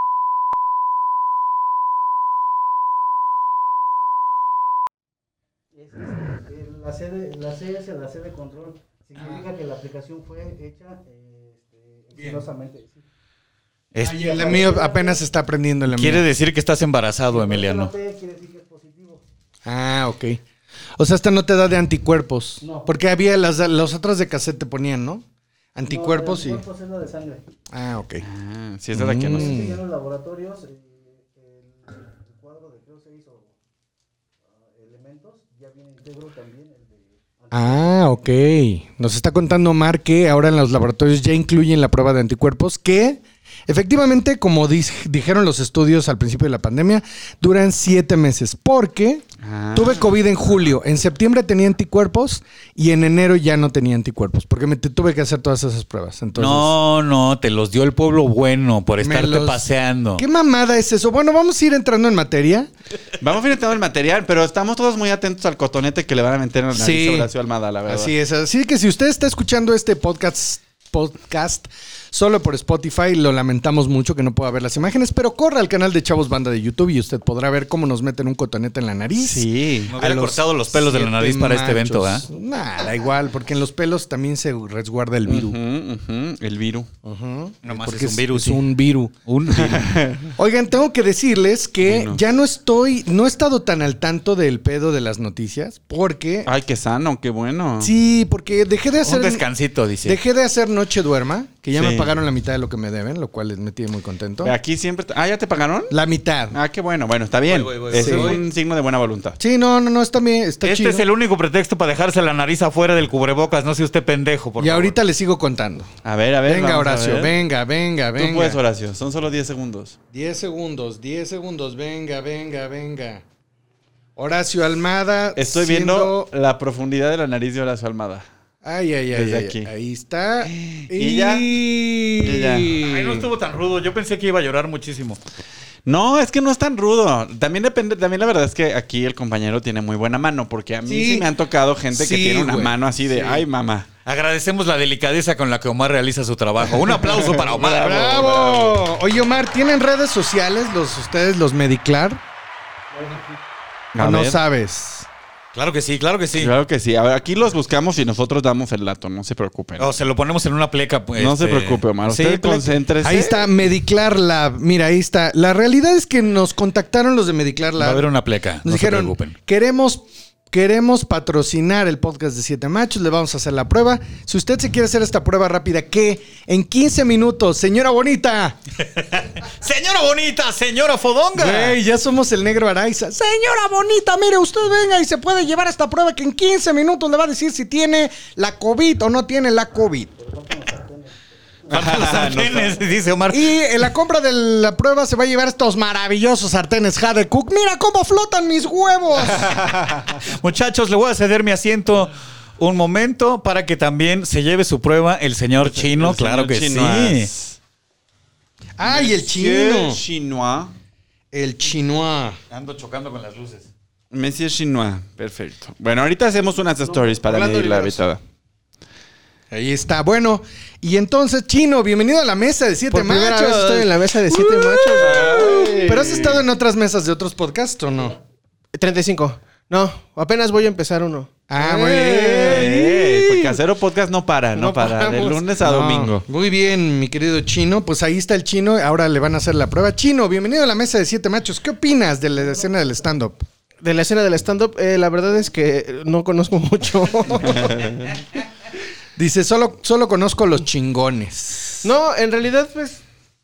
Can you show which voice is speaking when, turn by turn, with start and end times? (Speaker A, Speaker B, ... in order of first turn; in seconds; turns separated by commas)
Speaker A: 5.7-13.0, Speaker B: 13.9-14.3, Speaker C: 14.0-16.3, Speaker A: 14.0-15.2, Speaker B: 15.9-17.9, Speaker A: 17.3-19.2, Speaker C: 19.6-20.4, Speaker C: 21.0-25.2, Speaker A: 22.6-22.9, Speaker C: 25.7-26.6, Speaker A: 25.9-27.4, Speaker C: 27.7-28.2, Speaker D: 28.2-29.6, Speaker C: 28.9-29.8, Speaker A: 29.3-33.5, Speaker A: 34.5-38.2, Speaker C: 37.5-56.7, Speaker D: 49.4-50.2, Speaker B: 56.4-60.2, Speaker C: 59.0-59.6, Speaker C: 60.2-62.7, Speaker D: 63.2-68.1, Speaker C: 66.7-67.3, Speaker C: 67.9-85.6, Speaker D: 79.2-79.9, Speaker B: 79.9-82.2, Speaker D: 85.2-86.9, Speaker C: 87.0-89.1, Speaker B: 87.6-88.6, Speaker B: 89.2-89.9, Speaker D: 89.5-90.3, Speaker C: 90.4-96.5, Speaker D: 91.8-92.2, Speaker D: 96.4-97.9, Speaker C: 97.8-99.5, Speaker B: 99.0-100.2, Speaker C: 100.0-104.5, Speaker D: 101.7-102.1, Speaker D: 104.4-106.0, Speaker C: 105.9-106.6, Speaker D: 106.5-109.4, Speaker B: 107.5-108.4, Speaker C: 107.9-108.4, Speaker C: 109.4-111.0, Speaker B: 110.6-114.9, Speaker C: 114.6-115.9, Speaker D: 116.0-117.3, Speaker C: 116.5-118.6, Speaker D: 118.2-120.0, Speaker C: 120.1-123.2, Speaker C: 124.2-126.3, Speaker D: 125.3-128.2, Speaker C: 128.6-133.3, Speaker D: 129.1-129.7, Speaker D: 130.4-131.5, Speaker D: 132.2-132.8, Speaker B: 132.8-135.2, Speaker D: 135.8-143.9, Speaker C: 140.8-141.3, Speaker C: 141.9-143.4, Speaker B: 144.1-148.1, Speaker D: 146.8-148.8, Speaker C: 147.2-152.2, Speaker A: 152.9-153.4, Speaker D: 153.9-154.4, Speaker C: 154.0-155.1, Speaker B: 155.5-156.5, Speaker D: 156.4-159.9, Speaker B: 159.8-162.7, Speaker D: 161.2-163.4, Speaker C: 163.0-168.1, Speaker B: 167.8-169.3, Speaker C: 168.6-178.6, Speaker B: 178.9-181.8, Speaker C: 181.3-190.2, Speaker A: 190.2-191.2, Speaker B: 191.7-193.5, Speaker D: 191.7-192.8, Speaker C: 193.3-199.6, Speaker D: 199.2-200.2, Speaker B: 200.2-207.3, Speaker D: 205.6-207.6, Speaker C: 208.8-210.0, Speaker D: 208.8-210.7, Speaker C: 211.3-212.4, Speaker B: 212.5-213.7, Speaker D: 214.1-218.2, Speaker C: 217.2-218.0, Speaker C: 219.5-228.2, Speaker E: 222.9-225.3, Speaker D: 224.9-226.4, Speaker E: 228.7-232.8, Speaker C: 231.5-233.5, Speaker D: 232.4-236.2, Speaker E: 234.5-235.4, Speaker C: 235.6-243.4, Speaker E: 243.8-248.2, Speaker C: 249.2-251.9, Speaker E: 251.8-253.0